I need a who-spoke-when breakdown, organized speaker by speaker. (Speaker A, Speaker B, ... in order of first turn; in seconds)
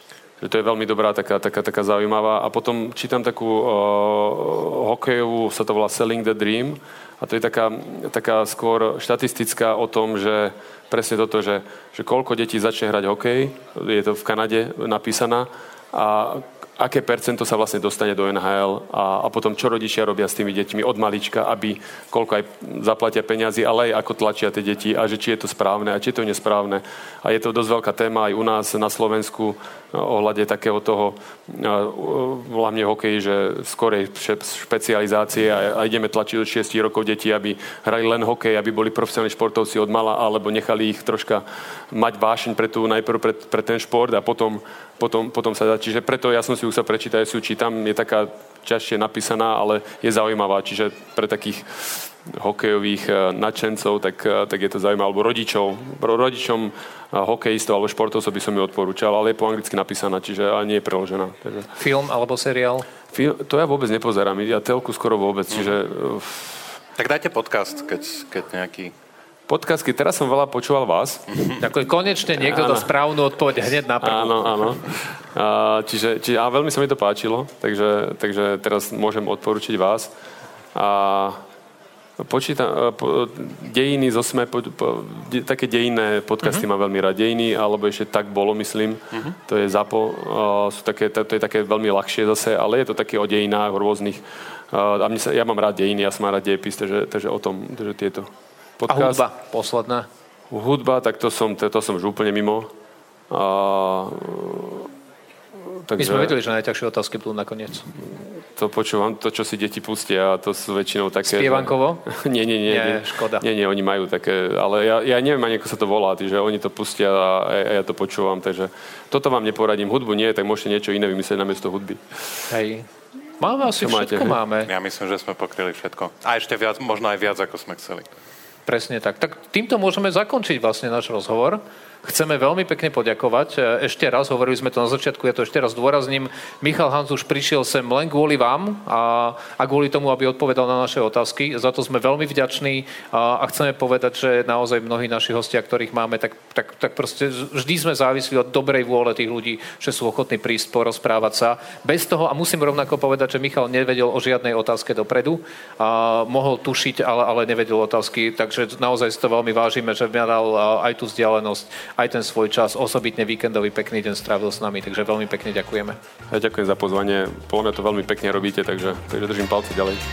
Speaker A: 0.4-61.7, 63.1-66.8, 69.5-71.3, 72.4-72.9, 74.0-80.1, 80.7-81.4, 82.2-99.2, 100.5-102.7, 103.3-104.9, 105.8-106.3, 108.6-122.0, 123.7-124.4, 166.3-170.0
Speaker B: 61.8-62.9, 71.6-74.8, 98.9-100.1, 106.0-107.9, 111.3-112.1, 112.7-113.4, 122.5-122.9, 123.4-124.7, 128.7-166.0
Speaker C: 67.0-68.9, 71.3-71.6, 124.7-128.1